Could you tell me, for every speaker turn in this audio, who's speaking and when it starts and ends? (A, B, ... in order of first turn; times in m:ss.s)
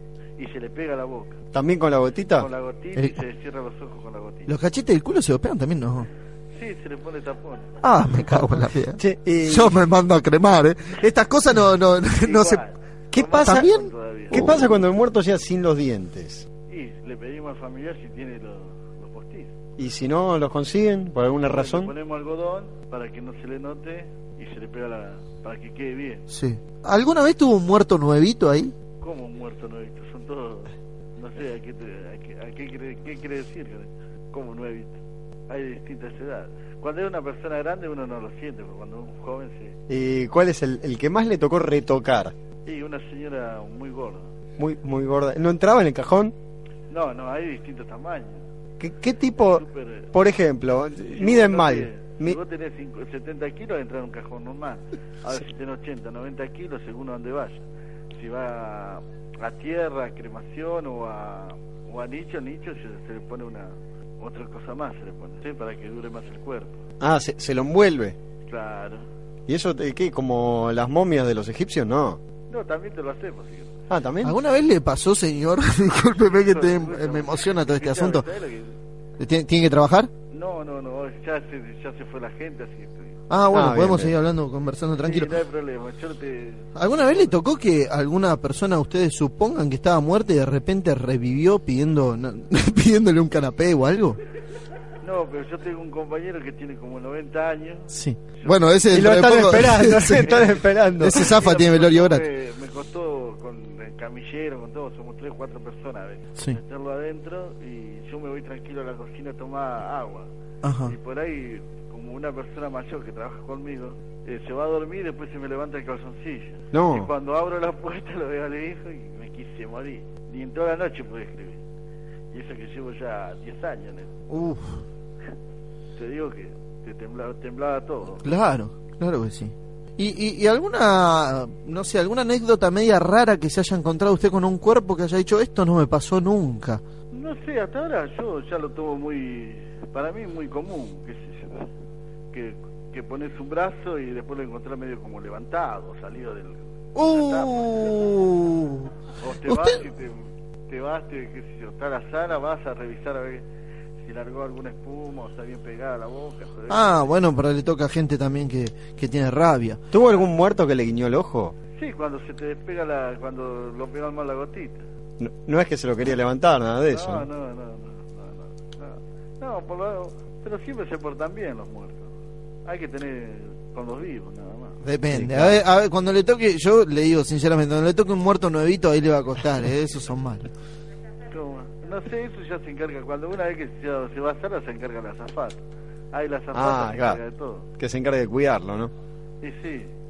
0:00.4-0:01.4 A
0:01.5-0:02.5 B
0:02.4-0:04.5 A
0:04.5-0:06.1 C
0:06.5-0:07.7 A
0:07.8-0:12.6 C
0:08.9-0:09.8 B
0:12.2-0:14.5 A
0:13.1-0:13.7 B
0:13.4-0:14.8 C
0:14.3-0:16.5 B
0:16.7-0:19.5 A
0:19.8-0:21.9 B
0:21.5-0:26.2 A
0:26.3-0:28.7 C
0:29.0-0:34.9 A
0:35.5-0:39.7 A
0:39.9-0:42.3 B
0:42.7-0:44.2 A
0:44.6-0:46.3 B
0:46.9-0:48.4 A
0:48.8-0:52.4 B
0:49.4-0:50.1 A
0:51.1-0:57.6 A
0:58.1-1:06.8 A
1:07.0-1:08.2 B
1:08.4-1:09.0 A
1:09.5-1:12.2 B
1:12.5-1:13.7 A
1:13.9-1:14.3 B
1:14.2-1:18.2 C
1:16.2-1:18.7 A
1:19.2-1:20.1 C
1:20.3-1:23.1 A
1:23.3-1:25.3 C
1:23.5-1:24.2 B
1:25.0-1:26.7 A
1:26.8-1:34.2 C
1:35.0-1:38.6 A
1:37.9-1:40.4 C
1:38.9-1:41.3 B
1:41.0-1:42.2 C
1:41.1-1:50.3 A
1:50.6-1:50.9 C
1:50.9-2:01.6 A
1:56.7-1:57.1 B
2:02.3-2:04.1 A
2:04.3-2:04.8 C
2:06.0-2:08.2 A
2:08.2-2:16.8 C
2:17.1-2:21.7 A
2:22.3-2:28.0 A
2:26.9-2:28.9 C
2:29.2-2:30.2 A
2:29.4-2:29.8 C
2:30.7-2:33.4 A
2:34.0-2:37.1 A
2:36.7-2:39.8 C
2:39.9-2:41.6 B
2:41.8-2:44.8 A
2:45.2-2:47.3 B
2:46.9-2:52.1 A
2:52.7-2:54.8 A
2:54.8-3:00.5 C
2:55.1-2:55.6 B
3:01.3-3:05.6 A
3:06.1-3:07.6 A
3:06.5-3:07.2 B
3:07.8-3:08.9 B
3:09.4-3:09.9 A